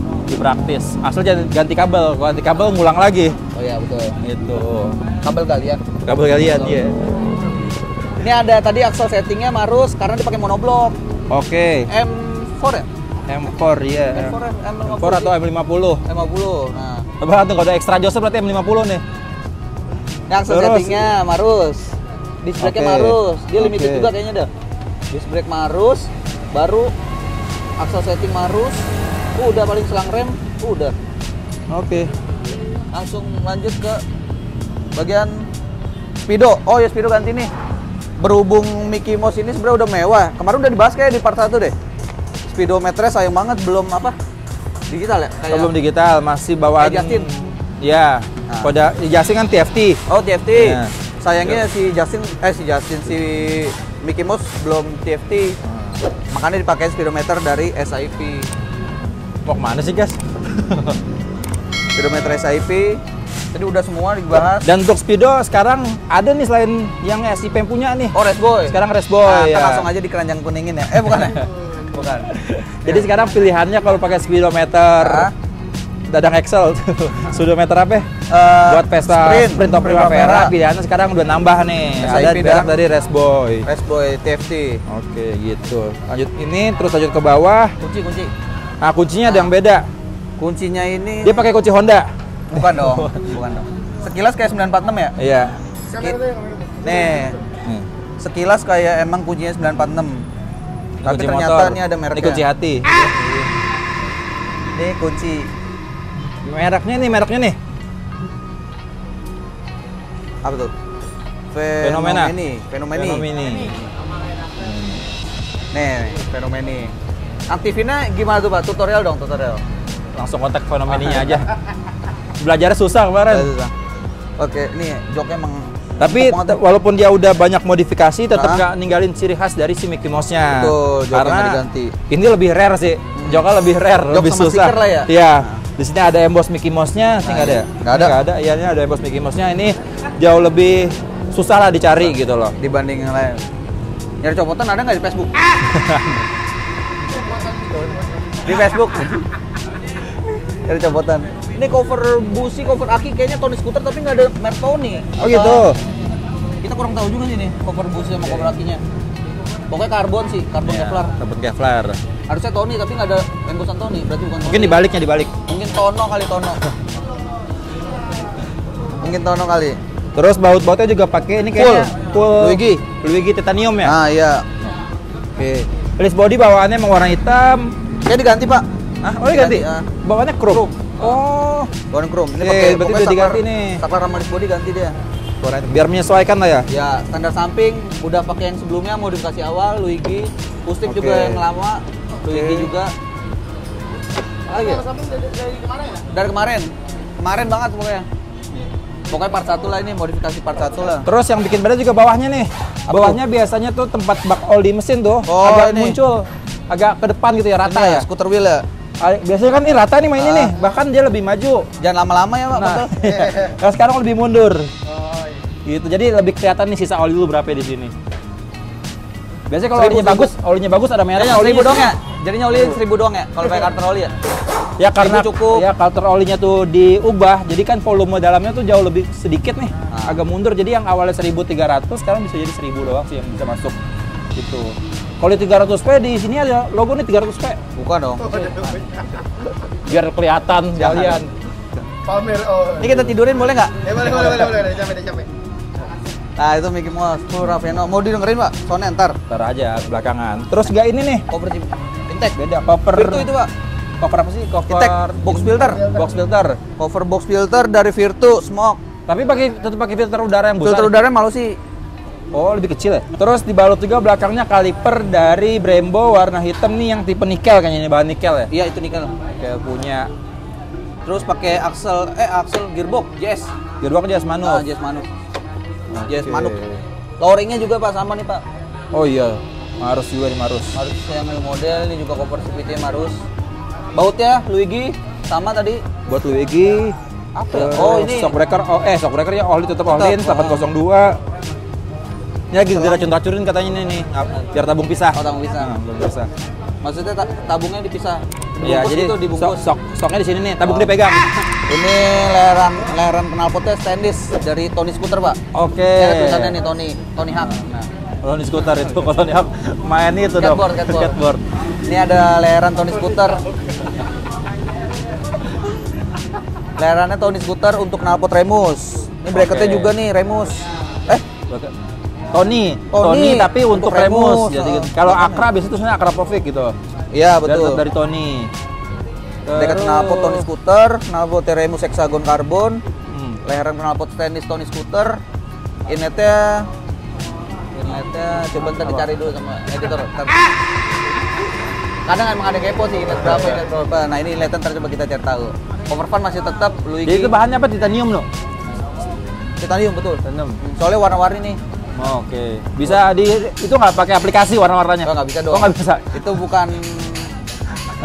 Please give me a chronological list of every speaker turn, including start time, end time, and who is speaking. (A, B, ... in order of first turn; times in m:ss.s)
0:00.3-0:03.4 A
0:03.5-0:04.2 B
0:04.2-0:05.0 A
0:05.2-0:05.8 B
0:06.0-0:07.2 A
0:06.4-0:06.8 B
0:08.2-0:11.0 B
0:11.3-0:11.9 A
0:11.9-0:12.9 B
0:13.3-0:16.0 A
0:14.1-0:15.3 B
0:16.0-0:17.1 B
0:17.2-0:19.0 A
0:20.3-0:24.5 B
0:20.5-0:21.1 A
0:22.6-0:24.1 A
0:25.1-0:26.9 B
0:27.8-0:28.8 B
0:29.4-0:30.9 B
0:31.7-0:32.1 A
0:32.9-0:34.0 B
0:34.9-0:35.5 B
0:36.3-0:37.5 B
0:38.2-0:41.7 B
0:42.5-0:44.2 B
0:44.9-0:45.7 B
0:45.5-0:50.0 A
0:46.8-0:47.3 B
0:48.5-0:48.7 B
0:50.1-0:55.6 B
0:50.5-0:50.9 A
0:55.6-0:56.0 A
0:56.3-0:58.5 B
0:59.4-1:01.0 A
1:02.0-1:03.0 B
1:03.5-1:04.7 B
1:04.6-1:08.2 A
1:08.1-1:12.3 B
1:08.7-1:09.9 A
1:10.9-1:11.5 A
1:12.2-1:15.3 A
1:15.0-1:15.3 B
1:16.1-1:18.1 A
1:18.3-1:20.5 B
1:18.6-1:23.6 A
1:22.0-1:22.7 B
1:23.6-1:24.8 B
1:24.9-1:27.7 A
1:27.8-1:28.3 B
1:28.8-1:29.9 A
1:29.2-1:29.5 B
1:30.4-1:31.5 B
1:31.2-1:33.3 A
1:32.5-1:35.2 B
1:35.2-1:35.6 A
1:35.9-1:37.4 C
1:36.8-1:37.4 B
1:38.2-1:40.2 B
1:41.0-1:43.5 A
1:41.0-1:42.4 B
1:44.7-1:45.5 B
1:46.4-1:47.6 A
1:50.4-1:50.7 B
1:51.5-1:53.8 B
1:51.8-1:52.3 A
1:52.9-1:53.8 A
1:54.6-1:55.0 A
1:55.7-1:56.9 B
1:57.5-1:59.6 B
2:00.1-2:01.5 A
2:00.9-2:01.3 B
2:02.4-2:03.5 A
2:03.3-2:03.7 B
2:04.4-2:06.6 B
2:06.0-2:22.5 A
2:08.3-2:08.6 B
2:10.5-2:12.0 B
2:13.1-2:13.4 B
2:14.1-2:15.6 B
2:17.2-2:18.1 B
2:22.6-2:23.4 B
2:24.2-2:25.3 B
2:25.7-2:26.2 A
2:27.0-2:28.5 C
2:28.4-2:29.2 B
2:30.6-2:35.7 B
2:35.2-2:35.8 A
2:36.6-2:38.8 B
2:39.7-2:41.1 B
2:40.6-2:42.0 A
2:42.3-2:44.8 B
2:44.5-2:45.3 A
2:45.5-2:46.6 B
2:49.0-2:49.8 B
2:50.1-2:54.0 A
2:51.6-2:52.8 B
2:53.8-2:54.7 B
2:55.4-2:57.7 A
2:58.0-2:59.9 B
2:59.0-3:01.7 A
3:00.5-3:01.2 B
3:01.9-3:04.9 B
3:02.4-3:03.8 A
3:05.4-3:06.6 A
3:06.7-3:12.9 B
3:10.9-3:11.4 A
3:12.3-3:12.7 A
3:14.5-3:14.8 B
3:14.5-3:16.0 C
3:16.1-3:18.0 B
3:19.1-3:21.1 B
3:21.0-3:28.1 A
3:22.9-3:23.2 B
3:25.2-3:26.0 B
3:27.6-3:28.6 B
3:29.0-3:31.7 A
3:30.2-3:30.5 B
3:31.8-3:33.4 B
3:32.5-3:34.7 A
3:34.9-3:35.4 C
3:35.6-3:37.9 A
3:39.5-3:41.9 A
3:39.7-3:40.3 B
3:41.1-3:44.1 B
3:42.5-3:42.8 A
3:44.8-3:53.8 A
3:45.0-3:45.6 B
3:49.9-3:50.2 B
3:54.4-3:57.6 A
3:57.8-3:58.8 B
3:58.2-3:59.2 C
3:59.8-4:01.3 A
4:00.8-4:01.2 B
4:02.0-4:03.1 C
4:02.8-4:04.5 B
4:03.8-4:05.3 C
4:06.4-4:09.2 B
4:09.3-4:11.2 A
4:11.3-4:12.4 B
4:12.4-4:13.3 A
4:12.9-4:13.5 B
4:14.0-4:16.6 A
4:14.7-4:16.0 B
4:16.8-4:18.8 B
4:19.1-4:21.0 A
4:20.6-4:21.6 B
4:22.3-4:28.5 A
4:28.5-4:29.1 B
4:29.4-4:30.1 A
4:31.0-4:33.5 B
4:33.8-4:34.6 A
4:34.4-4:35.1 B
4:35.9-4:36.8 A
4:36.0-4:36.6 B
4:37.2-4:38.4 B
4:38.9-4:40.7 A
4:40.7-4:43.2 B
4:43.9-4:45.8 B
4:46.1-4:47.0 A
4:47.4-4:48.3 B
4:47.5-4:51.2 A
4:49.8-4:50.6 B
4:52.5-4:56.3 A
4:52.7-4:53.1 B
4:55.1-4:55.7 B
4:56.8-4:59.6 B
4:58.6-5:01.3 A
5:00.6-5:00.9 B
5:01.7-5:05.4 B
5:05.5-5:06.6 A
5:06.0-5:07.9 B
5:08.2-5:11.4 A
5:10.4-5:11.2 B
5:11.8-5:13.4 B
5:16.8-5:21.2 B
5:19.3-5:19.9 A
5:21.5-5:21.7 A
5:22.3-5:26.8 A
5:22.9-5:25.4 B
5:27.1-5:27.8 B
5:27.4-5:28.5 A
5:29.4-5:30.5 A
5:29.5-5:32.8 B
5:33.0-5:33.4 A
5:33.4-5:35.2 B
5:35.9-5:36.7 B
5:37.7-5:40.4 B
5:38.6-5:39.1 A
5:42.0-5:47.3 B
5:47.0-5:48.3 A
5:49.6-5:51.6 B
5:50.2-5:50.6 A
5:52.0-5:56.3 A
5:55.0-5:57.3 B